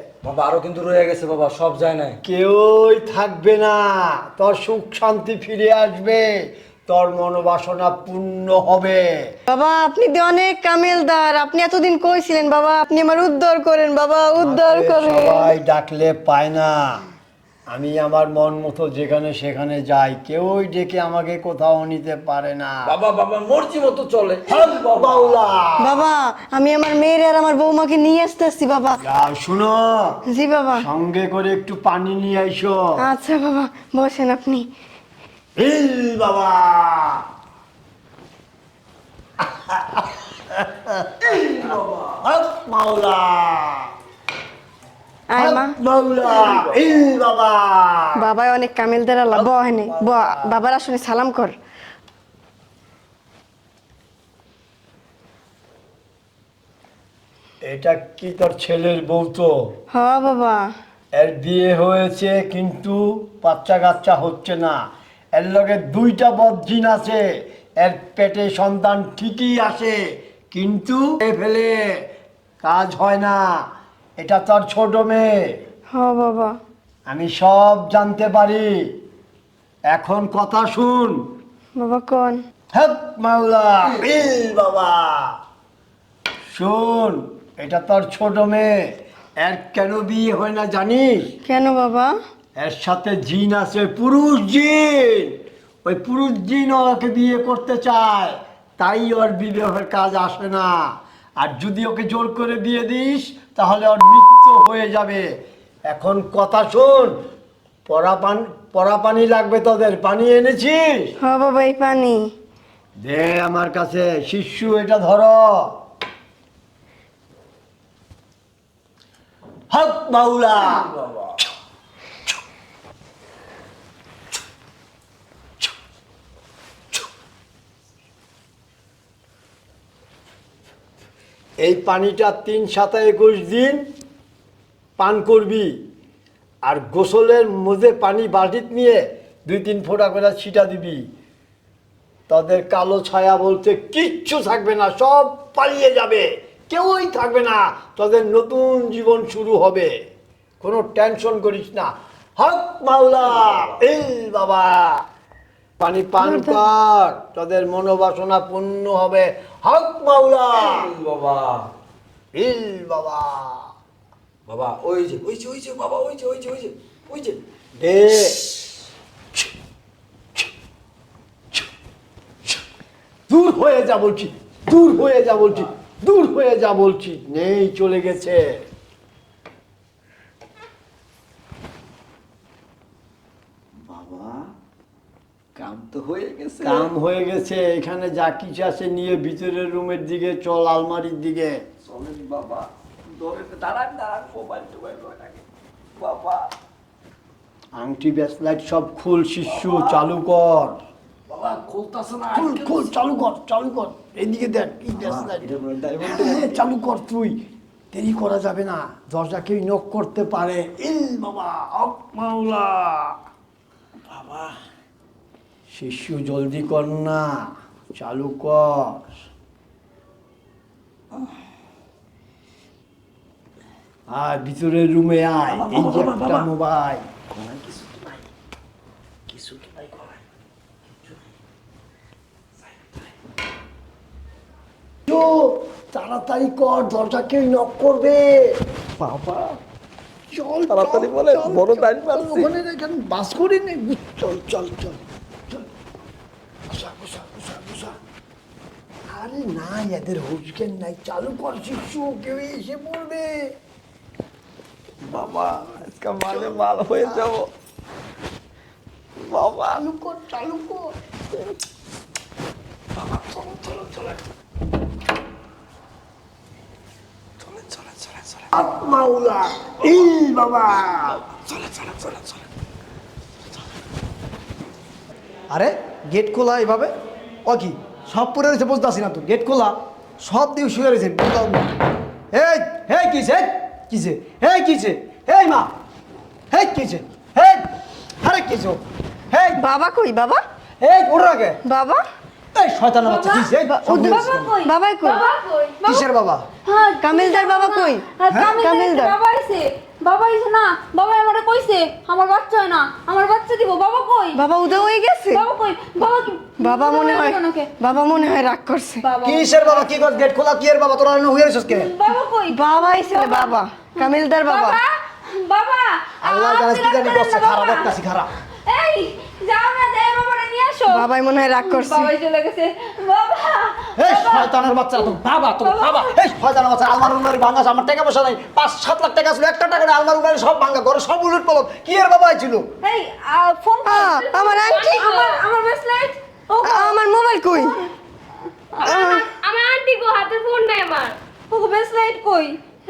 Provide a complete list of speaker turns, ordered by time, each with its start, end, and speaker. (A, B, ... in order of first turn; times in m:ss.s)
0:00.2-0:02.2 A
0:02.2-0:06.3 B
0:06.9-0:09.0 B
0:09.5-0:15.5 C
0:14.4-0:17.0 B
0:17.7-0:22.9 B
0:22.9-0:25.4 A
0:24.5-0:26.0 B
0:25.8-0:29.0 C
0:29.0-0:30.2 B
0:30.3-0:30.9 C
0:30.8-0:33.0 B
0:33.0-0:34.7 C
0:35.6-0:37.2 B
0:39.5-0:43.9 B
0:41.3-0:42.1 A
0:45.3-0:45.7 C
0:45.4-0:48.2 B
0:48.2-0:51.6 C
0:49.3-0:50.5 B
0:57.6-0:59.5 B
0:59.9-1:00.7 C
1:01.2-1:04.8 B
1:05.3-1:07.2 B
1:07.8-1:10.0 B
1:10.5-1:11.8 B
1:12.6-1:13.5 B
1:14.2-1:15.4 B
1:15.9-1:16.6 C
1:17.1-1:18.7 B
1:19.9-1:21.2 B
1:21.8-1:22.4 C
1:22.7-1:25.4 B
1:26.5-1:31.3 B
1:31.4-1:32.1 C
1:32.6-1:40.8 B
1:41.4-1:45.3 B
1:45.9-1:47.1 B
1:47.9-1:51.1 B
1:51.2-1:52.3 C
1:53.0-1:55.7 B
1:59.7-2:01.0 B
2:11.6-2:13.9 B
2:15.0-2:15.7 B
2:16.6-2:21.0 B
2:22.3-2:29.9 B
2:30.6-2:35.0 B
2:35.8-2:40.9 B
2:36.2-2:36.6 C
2:40.6-2:41.7 A
2:42.3-2:43.7 B
2:44.5-2:47.4 A
2:47.8-2:48.5 B
2:53.3-2:58.4 B
3:03.8-3:04.5 A
3:05.6-3:06.9 A
3:06.6-3:11.6 B
3:11.8-3:15.4 A
3:16.0-3:16.5 A
3:17.8-3:20.7 B
3:19.5-3:20.0 A
3:21.3-3:22.9 A
3:22.3-3:25.5 B
3:25.0-3:26.6 A
3:26.0-3:27.4 B
3:27.9-3:33.2 B
3:34.1-3:34.6 A
3:35.7-3:39.0 B
3:44.1-3:47.0 B
3:45.5-3:46.5 A
3:47.3-3:48.2 A
3:49.3-3:50.2 A
3:55.1-3:58.6 B
3:59.0-3:59.6 A
4:00.3-4:05.0 B
4:00.7-4:02.5 A
4:06.7-4:08.0 B
4:09.1-4:13.5 B
4:15.0-4:17.5 A
4:16.3-4:17.2 B
4:19.2-4:19.8 A
4:19.6-4:20.9 B
4:23.0-4:24.2 A
4:27.4-4:28.5 A
4:28.5-4:31.2 B
4:31.6-4:32.2 A
4:35.5-4:36.9 D
4:37.4-4:41.7 D
4:42.3-4:45.7 D
4:46.5-4:47.6 D
4:48.2-4:49.6 D
4:49.6-4:50.4 C
4:50.8-4:51.6 D
4:51.6-4:52.0 C
4:52.5-4:54.5 D
4:53.0-4:56.1 E
4:53.6-4:55.3 C
4:55.8-4:56.5 D
4:56.6-5:04.4 E
4:57.0-4:58.0 C
4:58.6-4:59.2 C
5:04.3-5:05.4 C
5:05.3-5:07.7 E
5:06.6-5:09.0 C
5:09.0-5:10.3 E
5:09.2-5:11.9 D
5:11.7-5:18.0 E
5:12.5-5:14.8 C
5:16.2-5:18.3 D
5:18.7-5:21.1 E
5:20.9-5:22.1 C
5:21.6-5:26.1 E
5:24.0-5:32.7 D
5:32.8-5:37.8 E
5:33.8-5:35.0 C
5:34.6-5:35.4 F
5:36.6-5:37.8 C
5:38.8-5:41.2 F
5:38.8-5:39.2 C
5:41.5-5:42.6 E